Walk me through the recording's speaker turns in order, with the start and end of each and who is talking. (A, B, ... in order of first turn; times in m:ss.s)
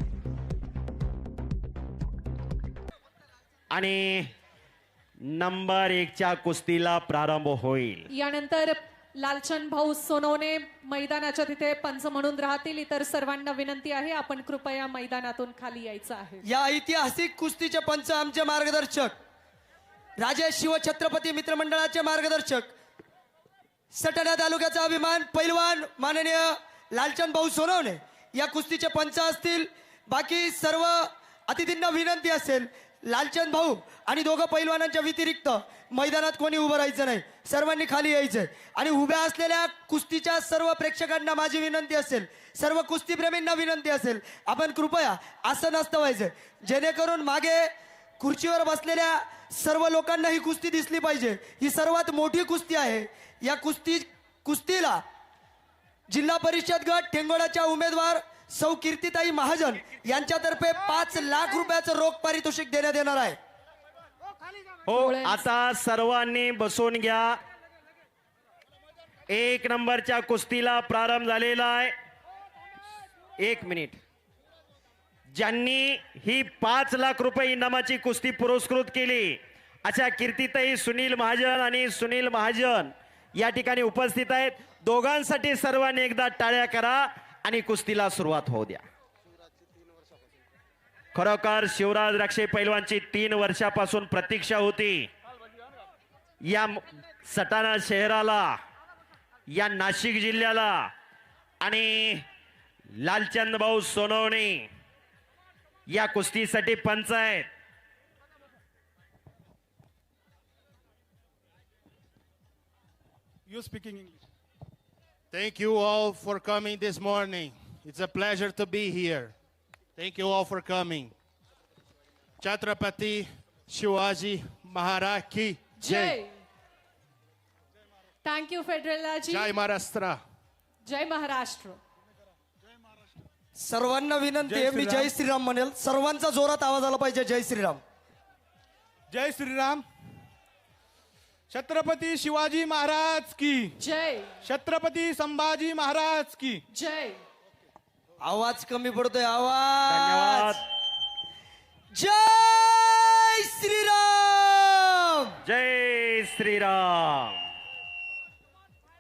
0:03.7-0:04.3 A
0:05.2-0:08.1 A
0:08.1-0:16.4 B
0:16.4-0:19.2 C
0:20.2-0:22.7 C
0:23.9-0:55.0 C
0:56.1-1:03.4 C
1:04.9-1:07.4 A
1:04.9-1:05.5 B
1:09.3-1:11.9 A
1:13.4-1:14.0 A
1:15.3-1:28.8 A
1:31.1-1:35.1 A
1:36.5-1:38.6 A
1:39.5-1:40.9 A
1:41.6-1:42.3 A
1:43.0-1:44.7 A
1:45.9-1:47.5 A
1:53.5-1:54.2 D
1:55.3-1:59.3 E
2:00.0-2:01.1 E
2:02.4-2:06.2 E
2:05.8-2:06.3 B
2:08.2-2:09.5 B
2:09.3-2:10.2 E
2:10.8-2:11.8 B
2:13.6-2:17.8 C
2:14.4-2:15.1 D
2:19.1-2:19.8 D
2:21.5-2:23.8 D
2:23.8-2:24.4 B
2:24.4-2:26.6 D
2:26.7-2:27.2 B
2:28.2-2:30.6 C
2:29.9-2:30.6 A
2:31.9-2:35.4 C
2:35.4-2:37.4 A